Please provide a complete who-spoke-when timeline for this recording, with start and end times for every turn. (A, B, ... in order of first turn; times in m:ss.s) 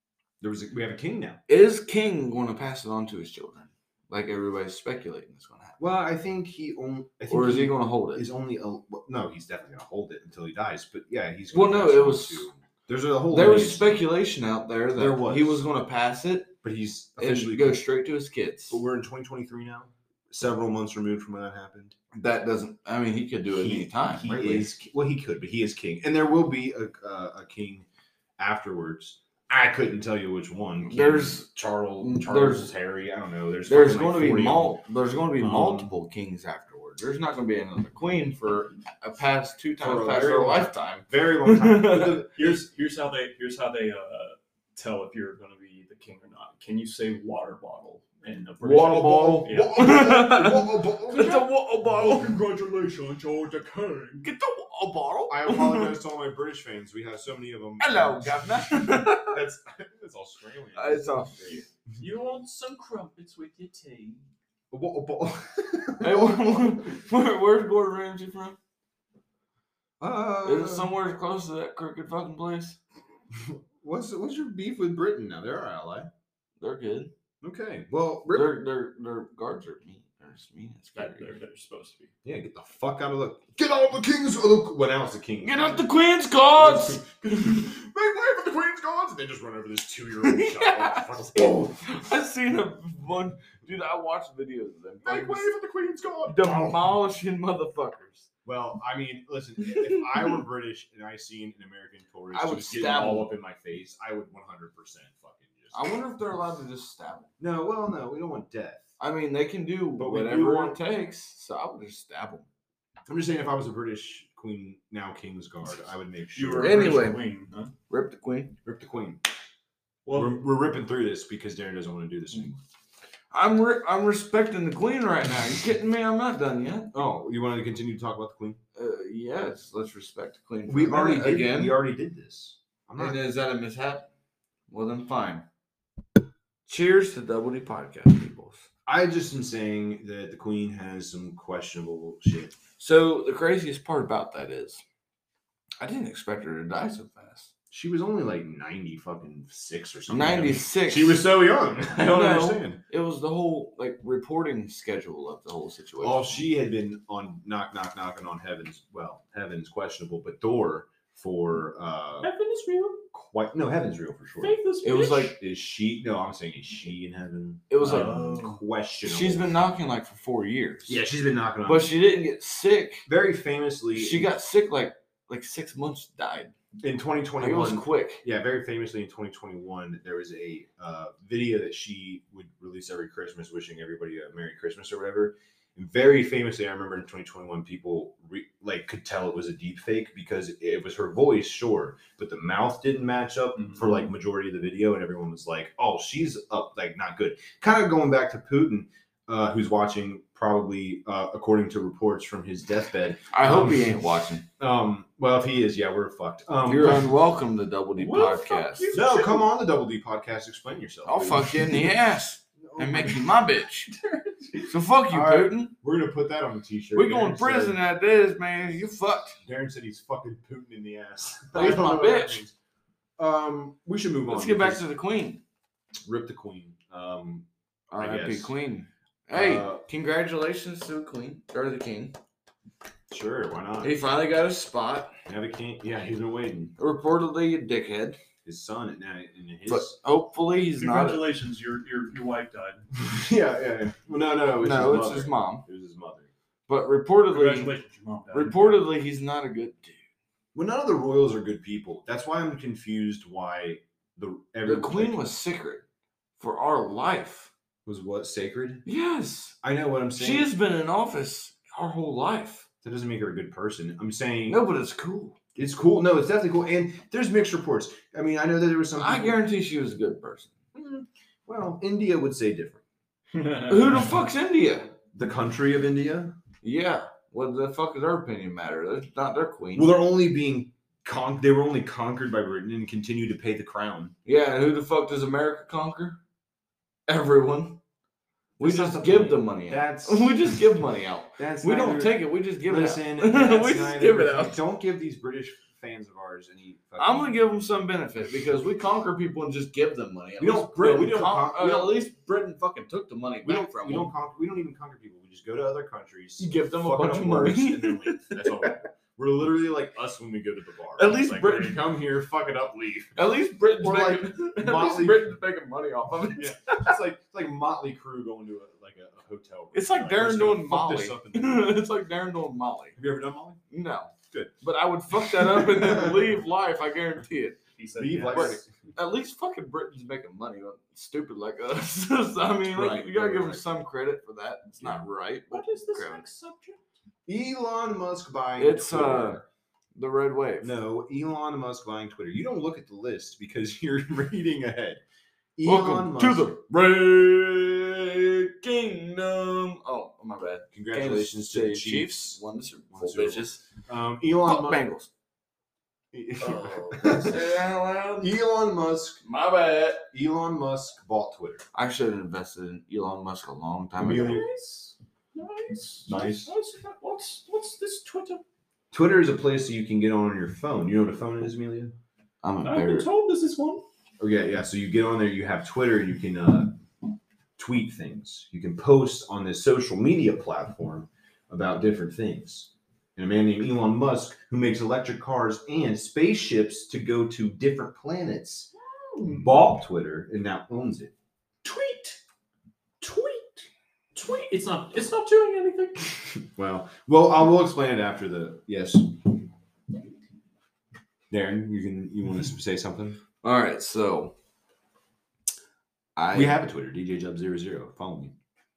0:00.4-0:01.4 A
0:01.5-0:05.8 B
0:05.8-0:14.0 A
0:07.3-0:08.3 B
0:11.5-0:12.5 B
0:13.3-0:16.6 B
0:15.0-0:15.6 A
0:16.6-0:17.8 A
0:17.2-0:18.8 B
0:18.7-0:21.9 A
0:22.1-0:24.7 B
0:23.5-0:27.8 A
0:28.4-0:34.7 A
0:30.8-0:31.5 B
0:32.0-0:32.7 B
0:33.6-0:42.2 B
0:35.4-0:35.9 A
0:39.8-0:42.7 A
0:42.4-0:50.0 C
0:48.6-0:52.4 B
0:48.9-0:51.4 A
0:51.9-0:54.2 D
0:54.2-0:56.0 B
0:55.3-1:01.6 A
0:57.8-0:59.4 B
1:00.7-1:01.6 B
1:01.4-1:04.2 C
1:04.7-1:06.9 A
1:06.0-1:08.6 B
1:10.0-1:10.9 A
1:10.4-1:12.8 B
1:13.3-1:16.1 A
1:16.6-1:17.1 B
1:17.4-1:18.6 A
1:18.3-1:21.3 B
1:20.9-1:22.1 C
1:22.2-1:25.9 A
1:25.4-1:27.0 B
1:26.6-1:31.8 A
1:30.2-1:35.5 B
1:35.0-1:36.8 A
1:36.2-1:38.3 B
1:38.4-1:45.9 A
1:42.3-1:43.3 B
1:45.7-1:47.3 B
1:47.4-1:48.9 A
1:49.0-1:52.4 B
1:50.0-1:50.8 A
1:53.1-1:57.1 A
1:56.3-1:57.7 C
1:56.6-1:57.3 B
1:57.9-1:58.5 B
1:58.6-1:59.2 A
2:00.0-2:00.4 C
2:00.1-2:02.6 A
2:03.3-2:06.9 B
2:06.9-2:08.6 A
2:08.7-2:11.8 B
2:10.7-2:13.2 A
2:13.0-2:14.1 B
2:14.7-2:15.4 B
2:16.7-2:18.7 B
2:18.8-2:22.5 A
2:22.8-2:24.8 B
2:25.8-2:27.5 B
2:27.7-2:32.8 A
2:30.1-2:31.2 B
2:31.9-2:36.3 B
2:36.0-2:42.3 A
2:42.2-2:43.0 D
2:43.1-2:44.6 A
2:44.4-2:45.4 D
2:44.8-2:45.4 B
2:45.4-2:49.5 A
2:47.7-2:48.2 B
2:47.8-2:48.6 C
2:49.0-2:51.0 B
2:50.9-2:51.9 A
2:51.6-2:53.1 B
2:53.1-2:54.3 A
2:53.9-2:56.5 B
2:56.8-3:24.0 A
2:57.4-2:58.2 B
3:23.3-3:24.4 B
3:24.6-3:27.1 A
3:26.6-3:28.9 B
3:28.0-3:29.5 D
3:28.9-3:32.0 A
3:31.0-3:33.9 B
3:32.6-3:33.5 A
3:33.9-3:34.6 D
3:34.7-3:35.7 B
3:35.1-3:37.8 A
3:36.9-3:39.4 B
3:39.4-3:42.5 A
3:41.5-3:42.4 B
3:43.2-3:44.9 A
3:44.3-3:45.4 B
3:46.0-3:48.5 A
3:47.9-3:52.2 B
3:49.3-3:49.8 A
3:53.1-3:54.0 A
3:53.8-3:55.1 B
3:55.2-3:56.7 A
3:56.8-3:58.2 B
3:58.4-4:00.0 A
3:59.7-4:01.3 B
4:00.8-4:02.8 C
4:02.9-4:06.3 A
4:04.6-4:05.6 B
4:06.7-4:07.7 B
4:07.3-4:08.9 C
4:08.3-4:10.0 B
4:10.5-4:15.2 A
4:14.6-4:15.8 B
4:16.4-4:17.5 B
4:17.8-4:18.8 A
4:18.8-4:19.6 B
4:19.6-4:20.5 A
4:20.2-4:22.7 B
4:22.8-4:24.6 A
4:24.5-4:25.4 B
4:25.5-4:29.4 A
4:29.0-4:30.5 B
4:30.7-4:32.8 A
4:33.3-4:34.2 C
4:33.6-4:34.9 B
4:35.1-4:36.3 A
4:36.6-4:39.9 B
4:39.7-4:44.1 A
4:44.2-4:46.2 B
4:47.1-4:47.8 B
4:48.6-4:50.6 A
4:48.6-4:54.6 B
4:51.4-4:57.3 A
4:57.0-5:04.1 B
5:00.4-5:02.0 A
5:03.4-5:13.1 A
5:06.4-5:08.7 B
5:11.0-5:11.8 B
5:13.2-5:17.0 B
5:13.8-5:15.3 A
5:16.4-5:21.8 A
5:19.7-5:23.0 B
5:23.0-5:23.6 A
5:23.7-5:27.6 B
5:24.3-5:24.6 A
5:25.2-5:26.2 A
5:27.8-5:28.6 C
5:28.0-5:28.7 A
5:28.3-5:36.2 B
5:32.7-5:33.7 A
5:34.8-5:35.0 A
5:35.5-5:36.8 D
5:37.2-5:39.4 A
5:38.6-5:39.4 B
5:39.9-5:40.7 B
5:40.6-5:45.0 A
5:45.6-5:46.5 A
5:45.6-5:53.6 B
5:50.7-5:54.8 A
5:54.4-5:55.1 B
5:56.1-5:57.5 A
5:56.4-5:58.4 B
5:58.2-5:59.2 A
5:59.2-6:00.1 B
6:00.1-6:01.6 A
6:01.7-6:04.4 B
6:04.0-6:04.4 A
6:04.1-6:08.4 D
6:06.1-6:06.5 A
6:08.9-6:11.9 A
6:12.4-6:13.1 B
6:12.6-6:13.8 D
6:14.2-6:16.8 A
6:17.6-6:28.7 A
6:28.7-6:29.6 D
6:29.3-6:31.1 A
6:31.6-6:32.2 D
6:33.0-6:36.3 D
6:36.6-6:39.3 A
6:41.3-6:43.2 A
6:43.4-6:44.3 B
6:46.2-6:46.6 B
6:46.3-6:48.3 A